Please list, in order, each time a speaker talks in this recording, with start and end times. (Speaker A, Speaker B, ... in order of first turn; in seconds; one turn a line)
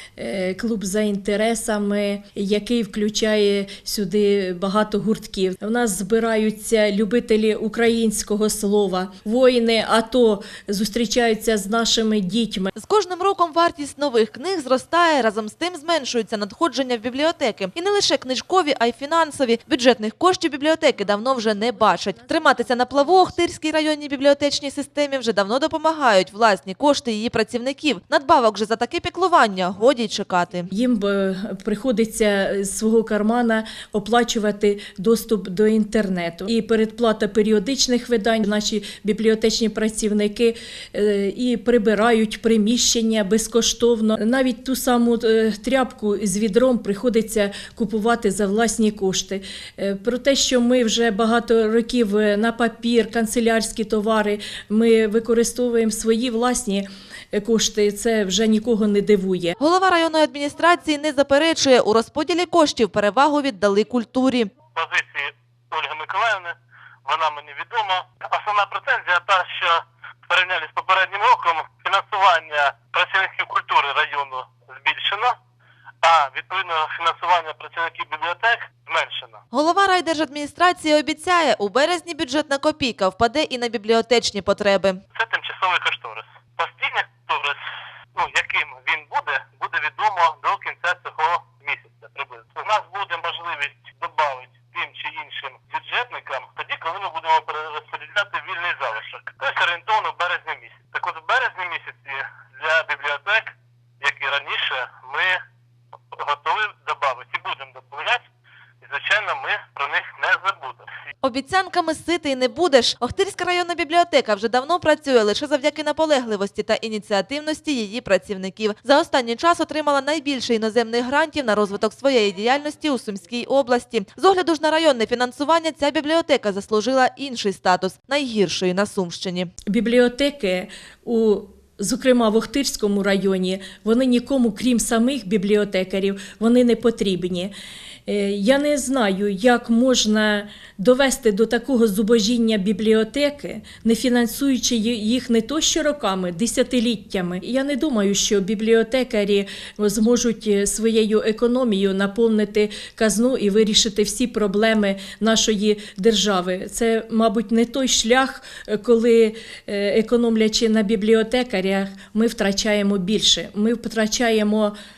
Speaker A: 0.2-12.7
Speaker B: 12.8-30.7
Speaker A: 30.7-59.6
Speaker B: 59.6-64.5
Speaker C: 64.8-75.4
Speaker C: 76.0-79.4
Speaker B: 79.5-85.0
Speaker C: 85.2-87.6
Speaker C: 88.2-105.4
Speaker C: 106.1-108.2
Speaker C: 108.8-110.9
Speaker B: 111.2-129.5
Speaker A: 129.7-137.5
Speaker A: 138.1-164.7